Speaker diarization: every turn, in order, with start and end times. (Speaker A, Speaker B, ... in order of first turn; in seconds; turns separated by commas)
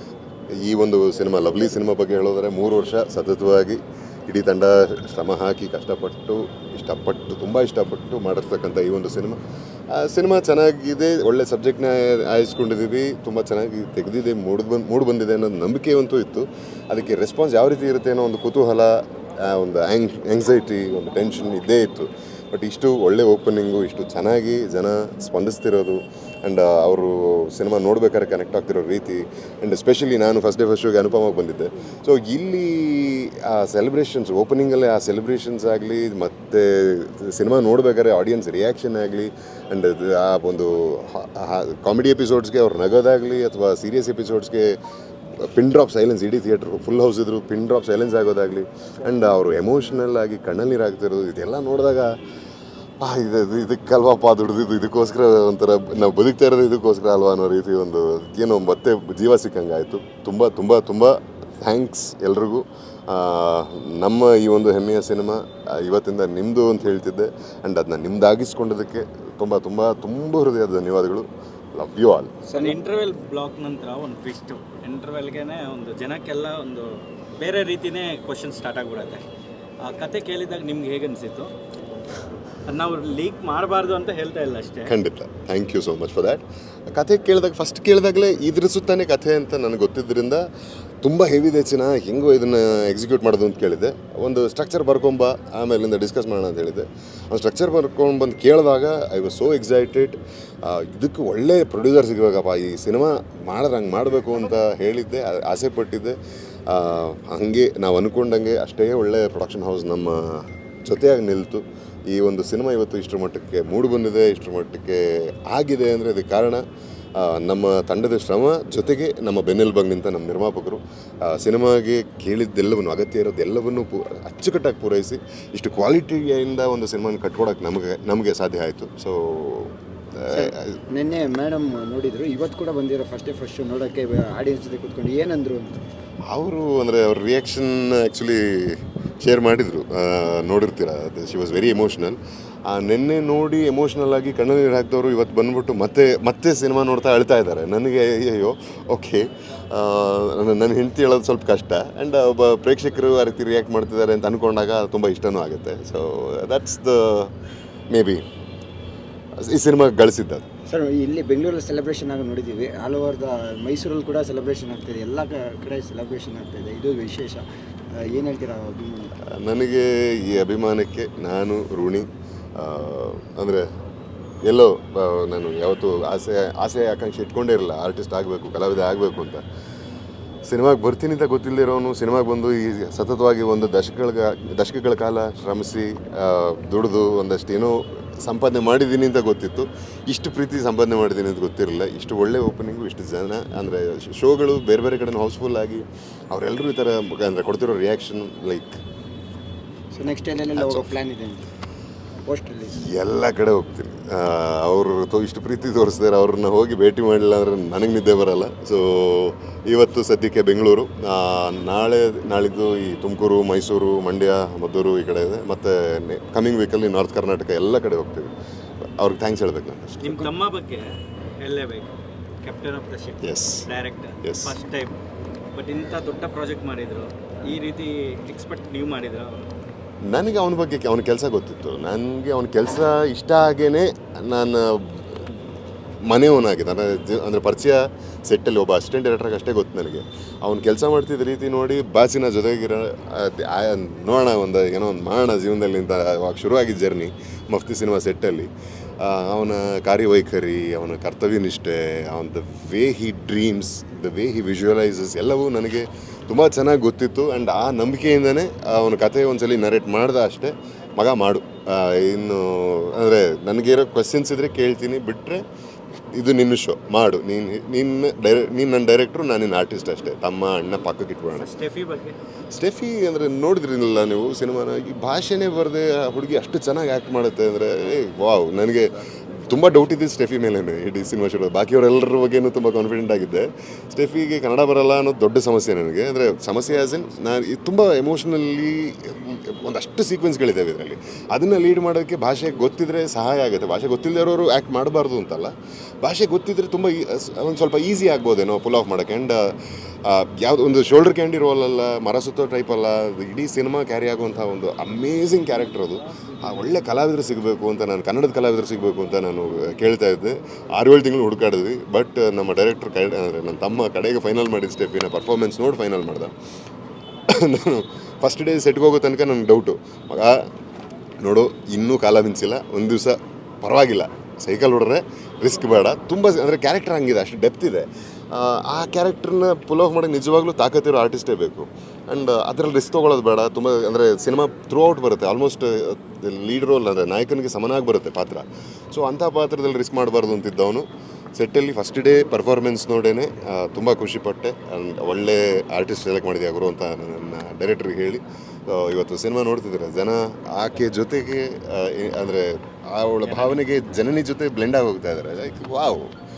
Speaker A: 0.6-9.4, Speaker A: 9.9-44.8, Speaker A: 45.4-52.1, Speaker A: 53.0-72.3, Speaker B: 72.5-72.8, Speaker C: 72.5-79.2, Speaker C: 79.8-81.5, Speaker C: 82.6-84.9, Speaker A: 84.8-90.5, Speaker A: 91.0-106.2, Speaker A: 106.7-116.6, Speaker A: 117.2-130.8, Speaker B: 130.3-135.8, Speaker A: 136.3-157.3, Speaker A: 157.9-158.2, Speaker A: 159.4-160.4, Speaker B: 160.7-167.4, Speaker B: 168.0-169.1, Speaker A: 169.3-173.6, Speaker A: 174.4-179.4, Speaker A: 180.5-198.8, Speaker B: 199.9-201.5, Speaker A: 200.6-200.9, Speaker B: 202.2-202.8, Speaker A: 202.7-218.3, Speaker A: 219.0-220.3, Speaker C: 220.0-220.9, Speaker C: 221.4-224.9, Speaker A: 223.2-223.7, Speaker A: 224.2-224.6, Speaker C: 225.5-229.4, Speaker A: 230.0-235.2, Speaker A: 236.0-265.4, Speaker A: 266.1-271.5, Speaker C: 271.3-272.2, Speaker A: 272.5-316.3, Speaker A: 317.3-320.5, Speaker A: 321.2-356.1, Speaker C: 353.2-353.6